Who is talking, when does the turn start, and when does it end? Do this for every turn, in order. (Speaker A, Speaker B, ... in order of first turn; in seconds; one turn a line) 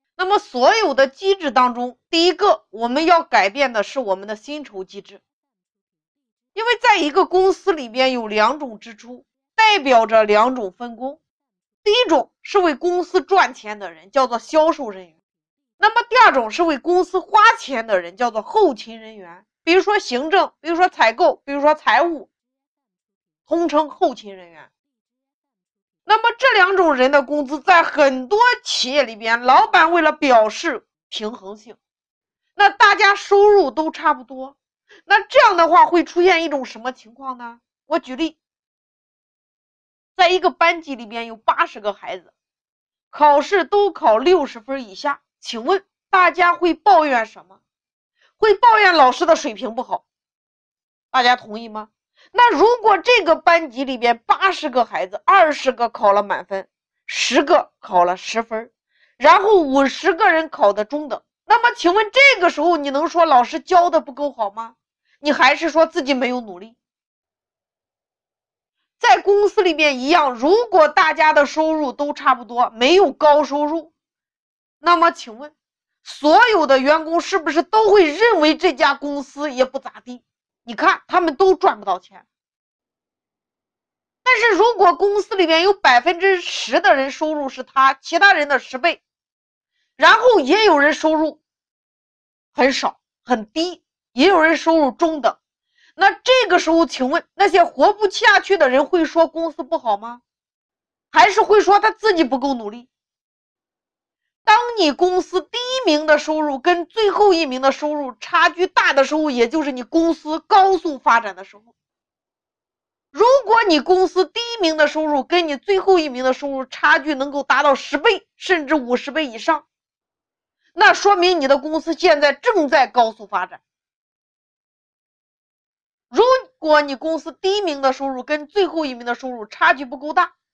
Speaker A: 0.2-5.2
Speaker A: 6.5-11.2
Speaker A: 11.8-15.1
Speaker A: 15.8-22.3
Speaker A: 23.5-24.7
Speaker A: 26.1-31.8
Speaker A: 32.5-38.4
Speaker A: 40.1-42.3
Speaker A: 43.1-47.6
Speaker A: 48.4-50.0
Speaker A: 51.1-66.8
Speaker A: 69.0-73.9
Speaker A: 74.8-82.2
Speaker A: 84.2-89.0
Speaker A: 90.0-91.4
Speaker A: 92.5-95.4
Speaker A: 96.0-100.2
Speaker A: 101.1-102.9
Speaker A: 104.4-111.7
Speaker A: 113.1-119.6
Speaker A: 120.7-123.6
Speaker A: 126.1-130.3